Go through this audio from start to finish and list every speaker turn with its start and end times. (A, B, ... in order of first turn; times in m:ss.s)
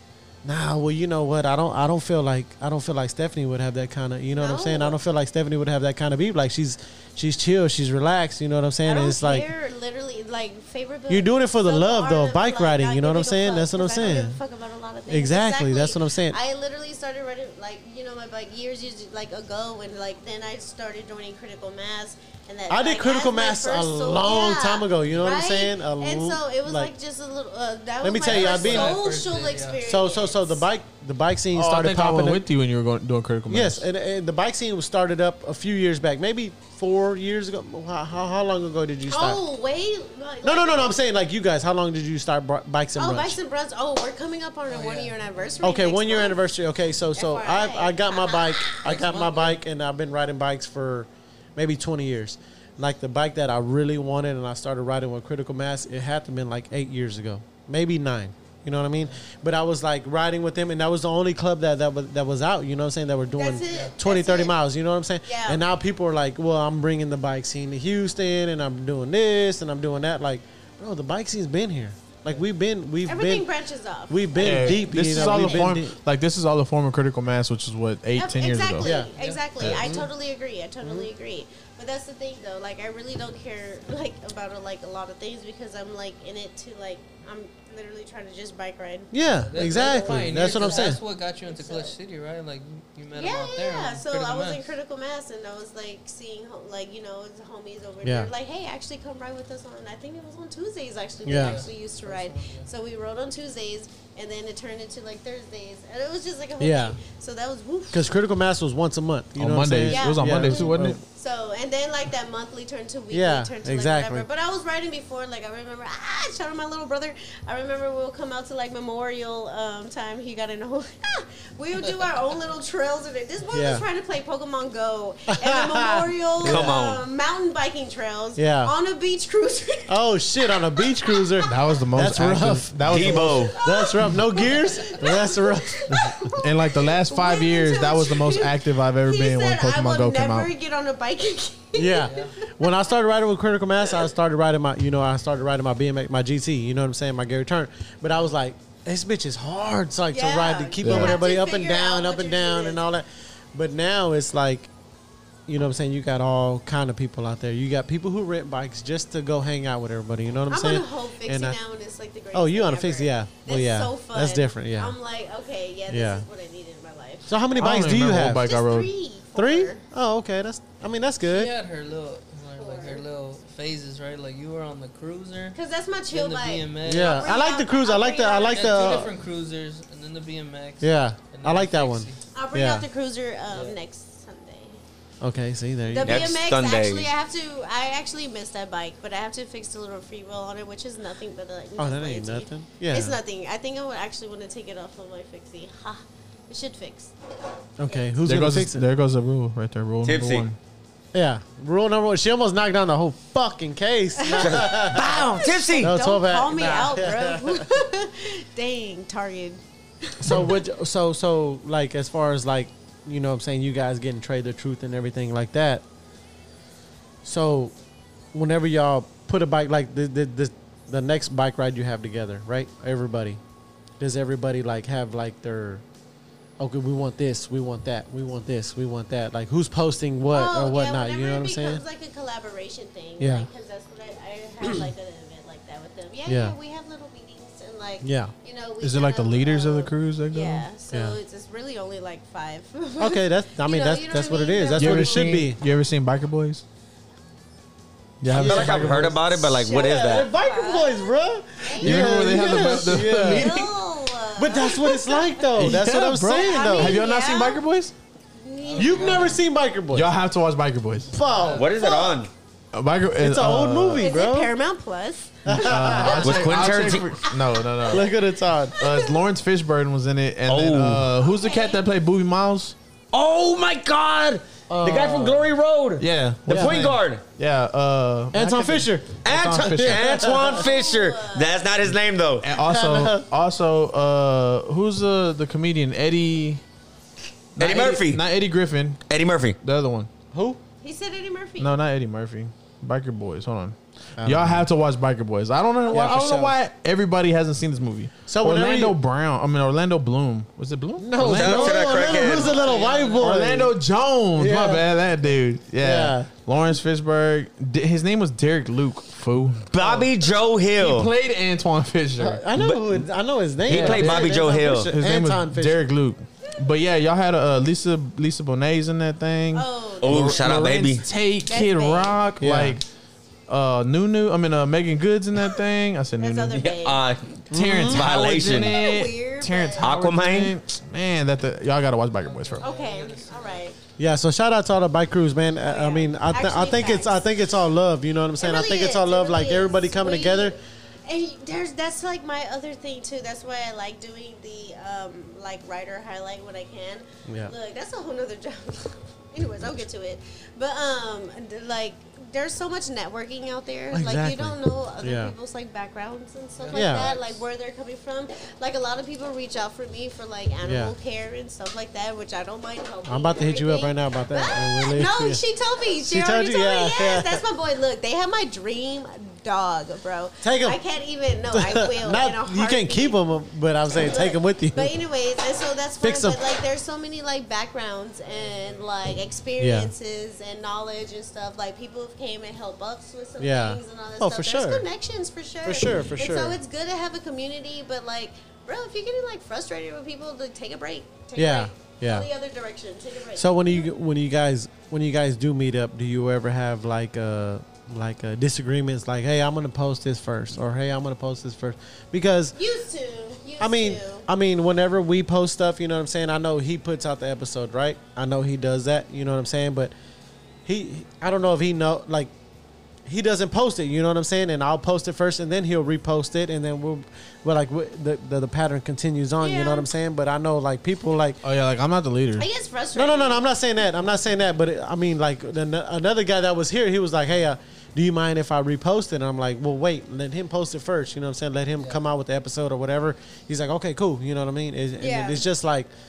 0:00.4-0:09.5 A
0:04.3-0:05.0 B
0:08.8-0:30.6 B
0:11.1-0:14.4 A
0:15.1-0:16.4 A
0:22.7-0:26.9 A
0:25.0-0:25.4 C
0:28.0-0:29.0 A
0:28.2-0:29.8 C
0:29.8-0:32.5 A
0:31.5-0:33.9 D
0:33.5-0:39.4 A
0:39.1-0:41.0 B
0:40.4-0:43.4 A
0:43.0-0:46.4 B
0:44.7-0:45.7 C
0:45.6-1:13.5 A
0:47.2-0:48.8 B
0:48.8-0:49.6 C
1:03.4-1:04.6 B
1:05.3-1:05.6 B
1:13.1-1:15.7 B
1:14.1-1:16.0 A
1:14.4-1:19.0 D
1:18.2-1:31.9 B
1:18.8-1:20.1 A
1:19.2-1:19.4 C
1:20.8-1:21.1 A
1:29.1-1:31.0 A
1:29.4-1:34.7 C
1:33.1-1:48.2 B
1:38.0-1:38.3 A
1:41.3-1:41.6 A
1:41.3-1:42.7 C
1:46.6-1:47.0 A
1:47.9-1:51.0 A
1:49.4-1:51.0 D
1:49.9-2:11.5 B
1:53.1-1:54.3 A
2:03.5-2:03.8 A
2:05.3-2:06.8 A
2:06.4-2:07.0 E
2:08.4-2:08.7 A
2:09.9-2:16.2 A
2:11.4-2:13.5 D
2:12.9-2:13.5 E
2:13.5-2:22.8 B
2:16.3-2:20.5 D
2:21.8-2:34.7 A
2:22.1-2:22.3 C
2:30.1-2:32.8 B
2:30.8-2:31.2 D
2:35.5-2:41.6 A
2:40.5-2:47.6 B
2:42.3-2:45.0 A
2:45.9-2:46.3 A
2:47.3-2:48.6 A
2:47.6-2:48.9 D
2:48.2-2:49.8 B
2:49.4-2:51.5 A
2:51.2-2:55.6 C
2:52.6-2:53.0 B
2:55.5-2:58.8 B
2:56.1-2:57.2 C
2:56.8-2:59.1 A
2:58.5-3:02.2 C
3:00.8-3:02.8 A
3:02.3-3:04.8 B
3:03.5-3:03.8 C
3:05.2-3:06.4 A
3:05.9-3:17.1 B
3:06.0-3:07.1 E
3:11.8-3:13.2 A
3:17.8-3:18.9 A
3:18.3-3:20.6 D
3:20.0-3:20.4 E
3:21.1-3:27.7 A
3:24.2-3:30.6 B
3:24.4-3:25.9 E
3:30.2-3:35.8 A
3:37.2-3:37.7 A
3:38.3-3:43.4 A
3:44.0-3:45.8 A
3:46.6-3:51.8 A
3:50.3-4:05.5 B
3:53.2-3:53.5 A
3:56.3-3:56.6 A
3:58.0-3:58.3 A
3:58.8-4:00.6 D
4:00.9-4:01.2 A
4:03.0-4:05.6 A
4:04.8-4:06.6 D
4:08.2-4:09.4 D
4:08.3-4:09.1 A
4:08.4-4:10.3 E
4:09.5-4:15.8 B
4:09.6-4:13.6 A
4:11.8-4:13.7 D
4:14.4-4:17.0 A
4:15.6-4:17.9 D
4:16.3-4:17.6 B
4:18.4-4:19.4 B
4:18.6-4:19.4 C
4:18.8-4:20.1 A
4:19.9-4:21.1 D
4:21.1-4:21.7 A
4:21.2-4:21.7 C
4:21.6-4:22.3 E
4:21.8-4:22.2 B
4:22.7-4:24.1 D
4:23.2-4:24.5 A
4:24.0-4:26.3 B
4:25.4-4:26.5 A
4:25.5-4:28.1 D
4:26.1-4:27.1 E
4:27.2-4:28.0 B
4:27.9-4:28.8 A
4:28.8-4:29.2 B
4:28.8-4:32.8 D
4:30.5-4:31.1 E
4:31.2-4:31.8 B
4:33.1-4:37.2 E
4:34.7-4:35.5 A
4:36.0-4:40.3 D
4:36.5-4:37.0 A
4:38.3-4:40.6 A
4:39.2-4:42.5 E
4:40.4-4:41.7 B
4:42.4-4:46.6 D
4:42.6-4:43.3 A
4:47.6-4:49.0 D
4:47.6-4:48.2 E
4:49.1-4:49.6 E
4:49.6-4:50.1 D
4:50.3-4:50.6 A
4:50.8-4:51.7 B
4:51.6-5:02.0 D
4:54.2-4:54.7 A
4:55.9-4:56.6 A
4:58.3-4:59.0 A
5:01.0-5:03.8 A
5:01.2-5:02.5 E
5:01.9-5:03.3 C
5:03.2-5:10.1 D
5:04.4-5:04.9 A
5:05.8-5:06.3 A
5:09.7-5:11.1 E
5:10.8-5:12.4 D
5:12.2-5:15.8 A
5:12.6-5:12.8 E
5:13.7-5:14.9 E
5:13.7-5:22.8 D
5:19.5-5:20.5 B
5:20.0-5:21.1 E
5:21.5-5:22.2 B
5:22.4-5:22.8 A
5:23.5-5:26.6 D
5:26.2-5:27.0 B
5:26.6-5:28.8 E
5:27.5-5:28.1 A
5:27.5-5:32.6 D
5:28.6-5:29.9 B
5:29.8-5:30.6 E
5:32.2-5:33.7 C
5:32.6-5:33.8 B
5:34.0-5:40.6 A
5:35.7-5:37.4 B
5:38.4-6:13.2 B
5:47.3-5:47.5 A
5:53.9-5:55.3 A
5:56.6-5:57.4 C
5:56.7-5:57.1 A
6:00.6-6:00.9 A
6:03.1-6:05.4 A
6:06.1-6:07.4 A
6:10.4-6:10.8 A
6:11.5-6:14.9 A
6:13.9-6:33.9 B
6:16.0-6:16.4 A
6:18.3-6:18.8 C
6:19.6-6:19.9 A
6:23.4-6:24.8 A
6:25.6-6:26.6 A
6:31.4-6:32.3 A
6:33.4-6:42.6 A
6:42.6-6:44.3 B
6:43.6-6:49.9 A
6:50.7-6:52.3 A
6:53.1-7:01.4 A
6:59.4-6:59.9 B
7:01.4-7:02.5 D
7:02.4-7:03.5 B
7:03.0-7:15.9 A
7:15.0-7:15.5 B